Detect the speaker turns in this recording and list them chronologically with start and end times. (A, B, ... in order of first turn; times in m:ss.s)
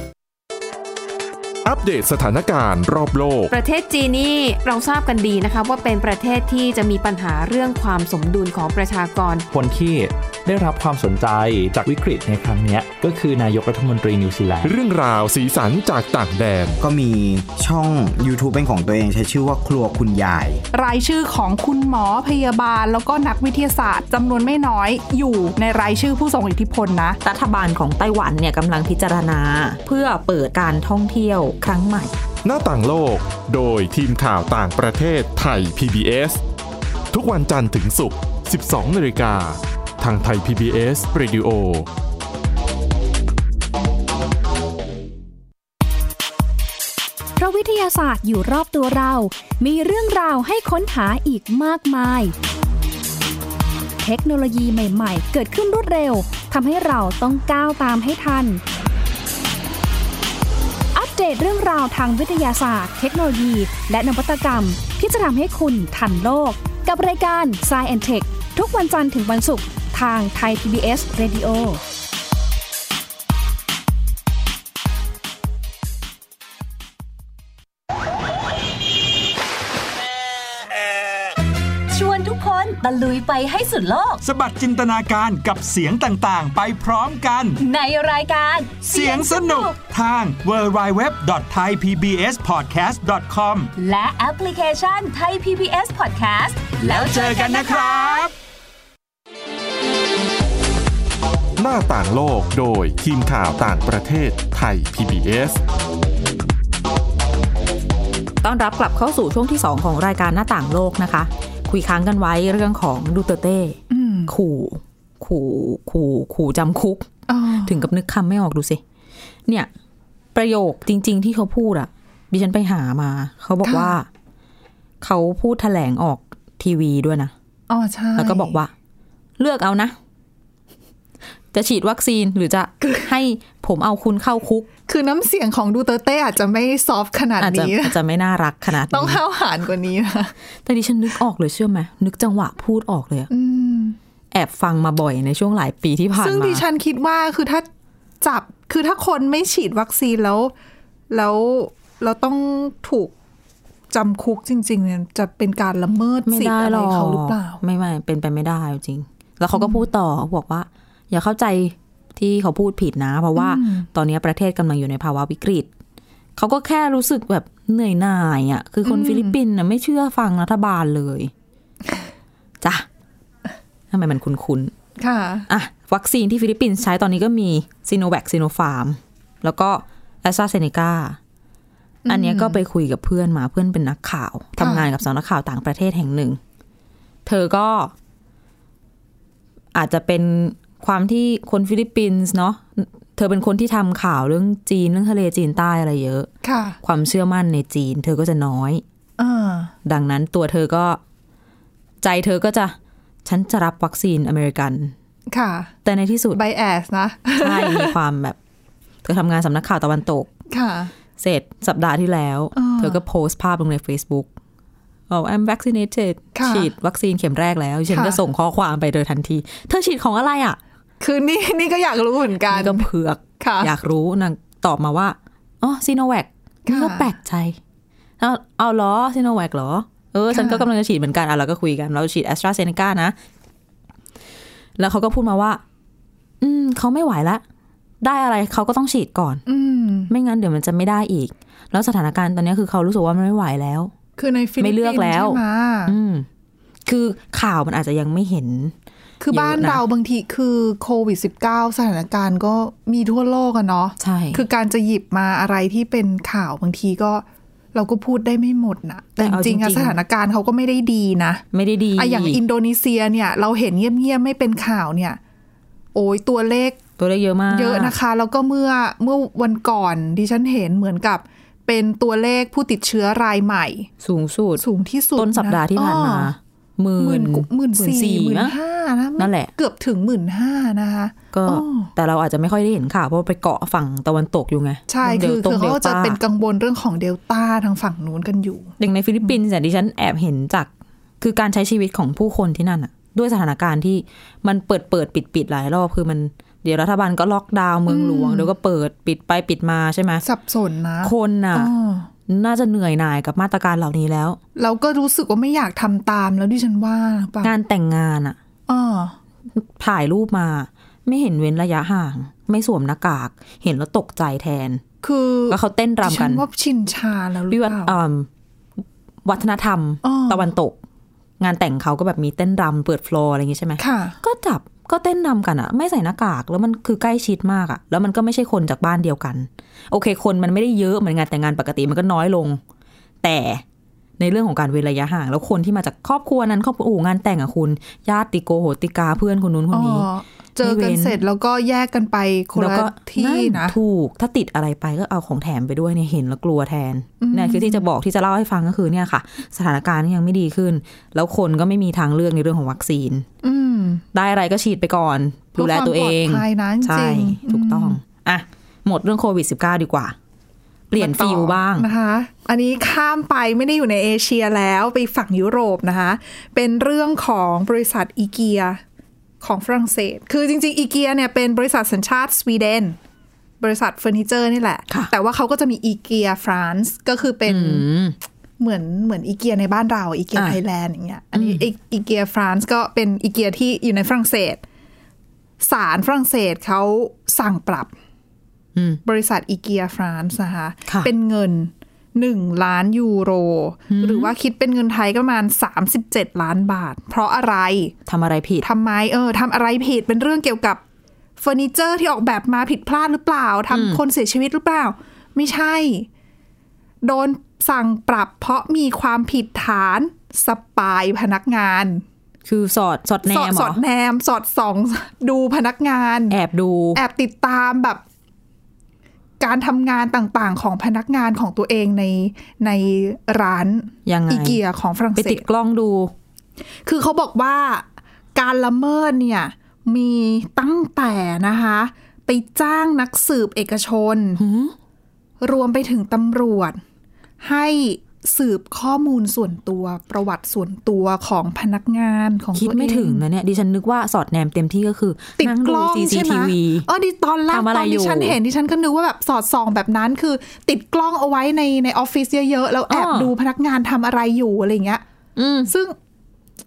0:01.6-0:03.5 A
0:03.5-0:09.5 B
0:09.5-0:14.7 C
0:14.6-0:16.8 A
0:16.8-0:20.6 D
0:20.7-0:27.2 E
0:27.2-0:32.1 F
0:32.4-0:36.4 A
0:37.1-0:41.9 A
0:47.4-0:52.3 G
0:54.0-0:58.6 G
1:00.9-1:11.8 G
1:21.9-1:24.2 H
1:24.2-1:27.6 I
1:27.6-1:29.8 H
1:28.8-1:33.7 I
1:33.8-1:38.2 H
1:36.8-1:38.3 I
1:41.6-1:45.6 A
1:48.4-1:57.1 F
1:53.9-1:54.3 E
1:57.3-1:57.8 E
1:57.6-1:58.8 F
2:00.3-2:04.1 F
2:03.6-2:03.9 E
2:05.0-2:07.3 F
2:07.7-2:08.6 E
2:08.2-2:08.7 F
2:09.4-2:10.0 F
2:11.5-2:14.7 F
2:14.9-2:18.0 E
2:17.4-2:19.2 F
2:18.9-2:20.3 E
2:20.6-2:23.3 F
2:23.3-2:24.0 E
2:24.3-2:26.6 F
2:26.2-2:27.6 E
2:28.2-2:30.5 E
2:31.1-2:33.1 E
2:33.9-2:37.6 E
2:36.2-2:45.7 F
2:39.5-2:39.8 E
2:43.3-2:43.9 E
2:46.4-2:51.3 F
2:48.8-2:49.4 E
2:53.9-2:54.7 F
2:55.0-2:55.5 E
2:55.5-3:01.2 F
3:02.0-3:02.6 E
3:02.1-3:06.4 F
3:04.6-3:04.9 E
3:07.2-3:07.9 F
3:09.7-3:16.3 F
3:16.4-3:16.8 E
3:16.8-3:18.8 F
3:19.2-3:19.7 E
3:19.8-3:21.0 F
3:22.0-3:24.9 F
3:25.3-3:25.7 E
3:25.8-3:26.4 F
3:26.3-3:27.9 E
3:27.4-3:28.4 F
3:29.0-3:30.3 F
3:30.5-3:30.9 E
3:31.2-3:34.3 F
3:32.5-3:33.0 E
3:35.1-3:40.6 F
3:36.3-3:36.7 E
3:37.9-3:38.2 E
3:41.0-3:42.9 E
3:42.5-3:47.6 F
3:43.4-3:43.7 E
3:46.6-3:47.1 E
3:48.2-3:53.1 F
3:50.3-3:50.6 E
3:54.8-3:55.6 F
3:56.4-3:57.4 F
3:58.0-3:59.4 F
3:59.4-4:00.1 E
4:00.1-4:03.9 F
4:04.2-4:05.9 E
4:04.6-4:06.3 F
4:06.8-4:08.7 F
4:09.2-4:21.4 E
4:09.3-4:09.8 F
4:14.0-4:14.4 F
4:19.2-4:20.0 F
4:21.5-4:22.4 F
4:22.0-4:25.2 E
4:25.9-4:26.8 E
4:27.0-4:27.9 F
4:27.5-4:33.9 E
4:34.0-4:34.6 F
4:34.6-4:36.3 E
4:35.2-4:38.5 F
4:37.0-4:41.9 E
4:39.2-4:39.5 F
4:41.3-4:46.2 F
4:44.9-4:49.3 E
4:48.8-4:50.7 F
4:51.2-5:00.2 F
4:57.9-4:58.5 E
5:00.2-5:02.1 E
5:01.0-5:01.7 F
5:02.3-5:04.4 F
5:04.6-5:07.5 E
5:07.4-5:08.4 F
5:08.7-5:09.2 E
5:09.6-5:14.8 F
5:15.0-5:17.9 E
5:15.5-5:16.4 F
5:17.5-5:18.3 F
5:19.2-5:20.8 F
5:20.0-5:20.5 E
5:21.4-5:32.6 F
5:23.8-5:24.2 E
5:33.2-5:33.6 F
5:34.2-5:40.1 F
5:39.7-5:43.8 E
5:40.6-5:41.2 F
5:42.6-5:53.2 F
5:47.2-5:47.8 E
5:53.4-5:54.0 E
5:54.1-6:00.1 F
5:55.6-5:58.0 E
6:00.9-6:01.9 F
6:00.9-6:08.8 E
6:09.4-6:13.0 E
6:13.6-6:17.8 E
6:17.4-6:18.2 F
6:18.6-6:24.6 E
6:21.3-6:21.6 F
6:25.6-6:27.9 E
6:29.0-6:37.9 E
6:33.9-6:34.3 F
6:38.1-6:38.6 F
6:38.6-6:40.8 E
6:41.4-6:46.1 E
6:43.7-6:44.0 F
6:47.0-6:52.0 E
6:52.4-6:53.8 F
6:53.3-6:56.4 E
6:56.3-6:57.0 F
6:56.9-6:58.0 E
6:59.4-7:05.4 E
7:04.0-7:04.6 F
7:05.1-7:06.1 F
7:06.8-7:07.8 E
7:08.4-7:14.4 E
7:14.4-7:14.7 F
7:15.4-7:16.8 E
7:17.4-7:23.2 E
7:22.5-7:26.9 F
7:25.4-7:35.0 E
7:27.5-7:28.4 F
7:32.9-7:33.3 F
7:35.4-7:35.7 F
7:35.7-7:35.9 E